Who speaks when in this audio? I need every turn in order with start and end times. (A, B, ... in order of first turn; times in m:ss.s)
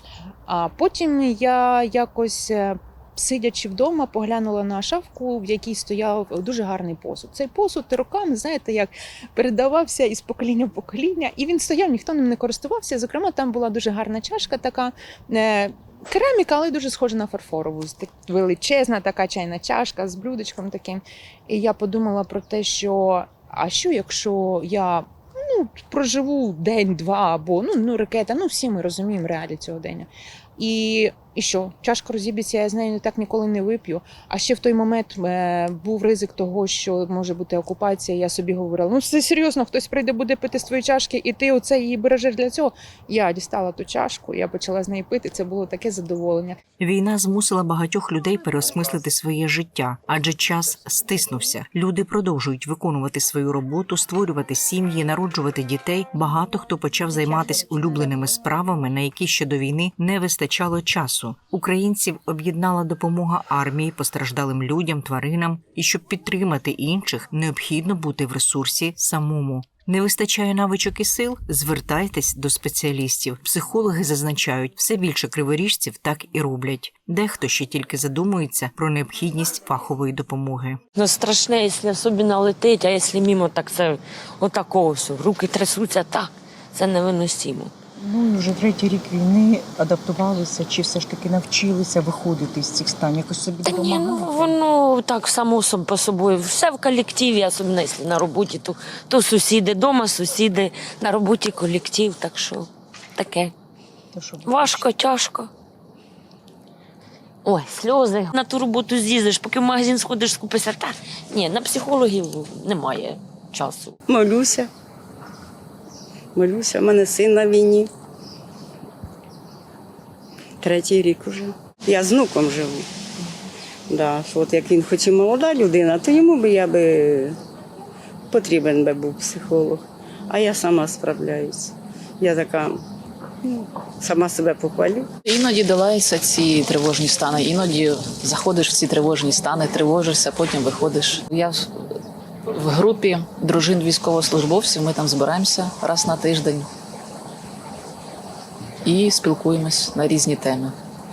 0:00.5-0:46.6 A
0:46.8-1:20.8 B
1:20.9-1:27.7 C
1:28.0-1:34.5 D
1:33.6-1:43.5 C
1:44.1-1:44.8 D
1:44.4-1:45.5 C
1:47.4-1:53.9 C
1:54.1-1:54.7 E
1:56.3-1:57.9 E
2:00.6-2:02.9 E
2:03.9-2:07.4 E
2:08.3-2:12.8 E
2:13.4-2:15.1 E
2:15.2-2:21.7 F
2:22.5-2:26.7 F
2:28.8-2:30.8 F